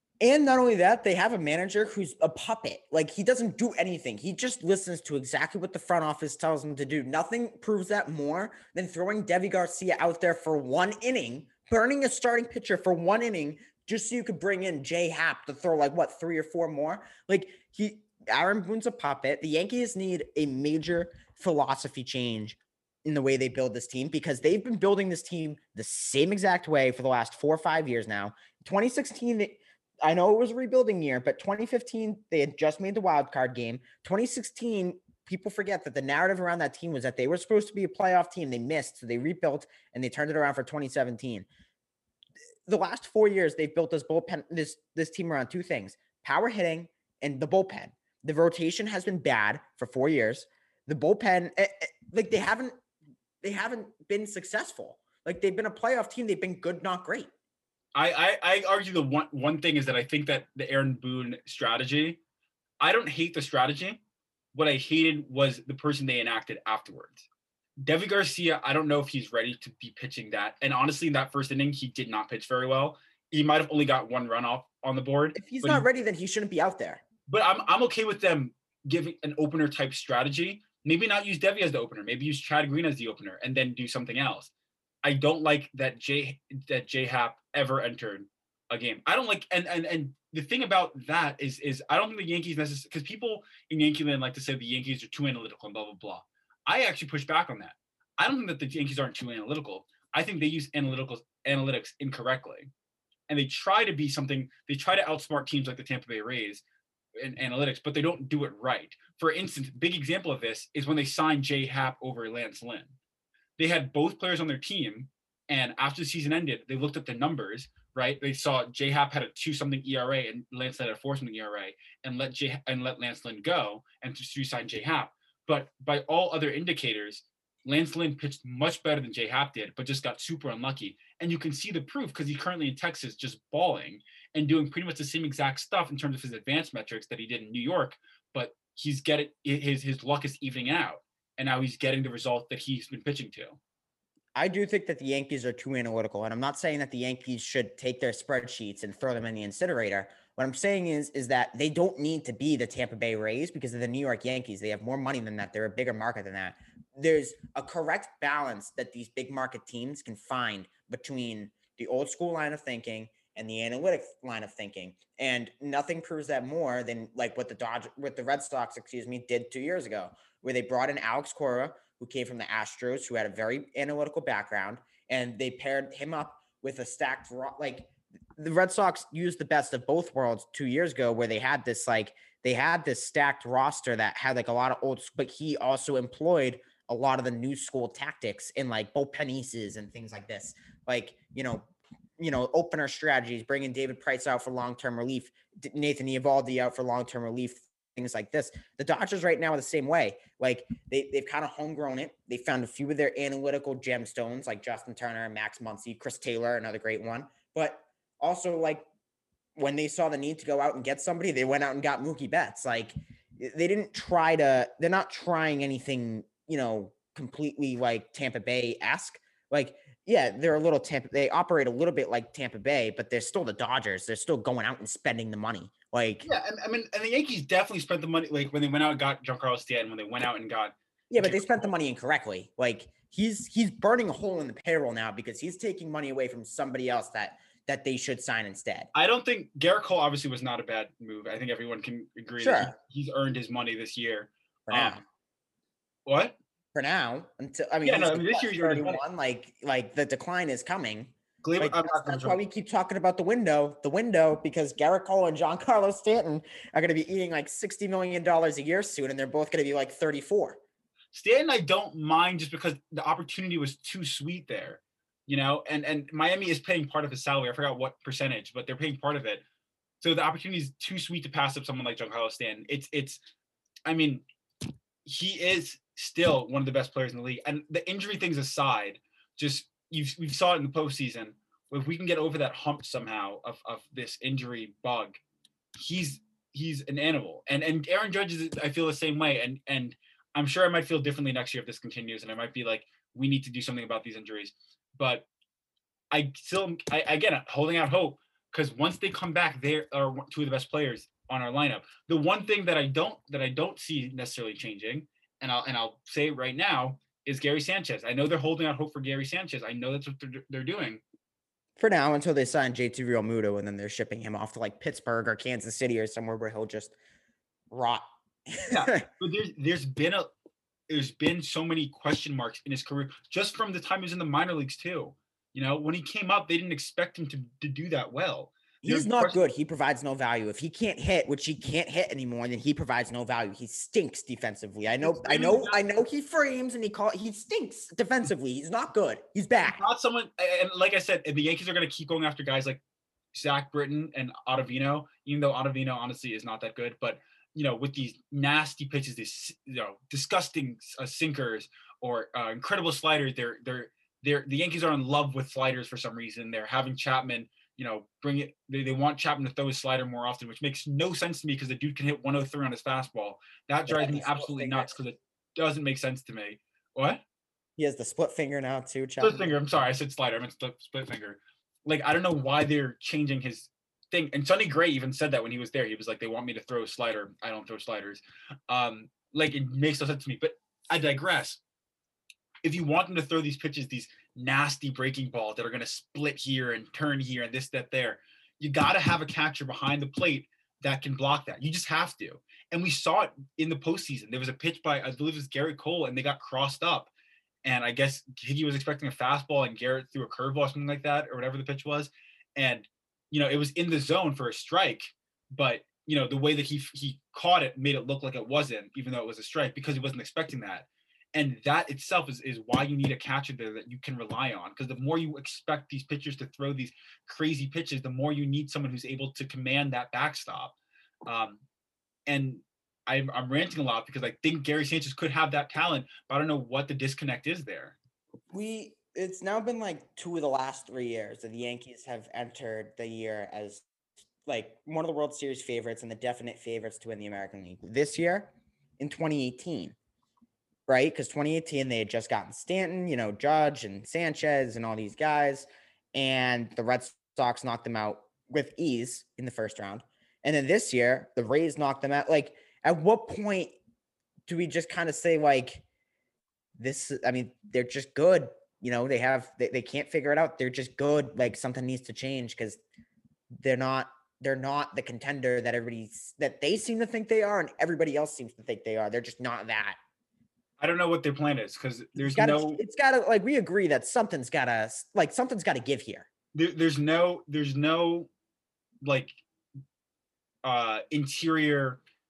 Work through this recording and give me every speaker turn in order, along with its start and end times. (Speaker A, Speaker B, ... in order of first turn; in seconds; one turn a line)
Speaker A: 0.2-41.5
Speaker A: 42.7-52.8
Speaker A: 53.4-57.3
Speaker B: 57.9-62.2
Speaker B: 62.8-64.0
Speaker B: 64.5-67.2
Speaker B: 67.8-75.8
Speaker A: 75.3-77.0
Speaker B: 77.3-84.5
Speaker B: 85.0-102.7
Speaker B: 103.3-106.6
Speaker B: 107.2-112.9
Speaker B: 113.6-143.6
Speaker A: 144.3-191.7
Speaker A: 192.2-208.8
Speaker A: 209.6-226.2
Speaker B: 226.2-231.6
Speaker A: 231.1-238.9
Speaker B: 238.9-245.0
Speaker A: 242.4-242.7
Speaker A: 244.7-245.0
Speaker B: 246.1-246.3
Speaker A: 246.7-260.6
Speaker B: 247.8-249.0
Speaker B: 251.4-252.4
Speaker B: 261.1-269.4
Speaker B: 270.0-273.2
Speaker B: 273.9-274.2
Speaker B: 275.0-285.2
Speaker B: 285.8-295.2
Speaker B: 296.1-311.0
Speaker A: 311.8-317.0
Speaker A: 317.7-319.0
Speaker B: 318.7-320.3
Speaker B: 320.9-329.4
Speaker A: 328.8-339.8
Speaker B: 335.0-335.8
Speaker B: 339.6-342.8
Speaker B: 343.3-367.2
Speaker A: 363.9-364.9
Speaker A: 367.8-369.5
Speaker B: 369.2-381.6
Speaker B: 382.6-397.1
Speaker B: 397.6-420.7
Speaker B: 421.2-421.6
Speaker B: 422.3-428.0
Speaker A: 428.5-433.8
Speaker A: 434.4-439.9
Speaker A: 440.9-453.8
Speaker A: 454.5-455.8
Speaker A: 456.8-462.8
Speaker A: 463.5-470.0
Speaker B: 470.8-472.8
Speaker A: 472.2-476.3
Speaker B: 476.5-478.3
Speaker B: 479.0-479.4
Speaker B: 480.6-482.0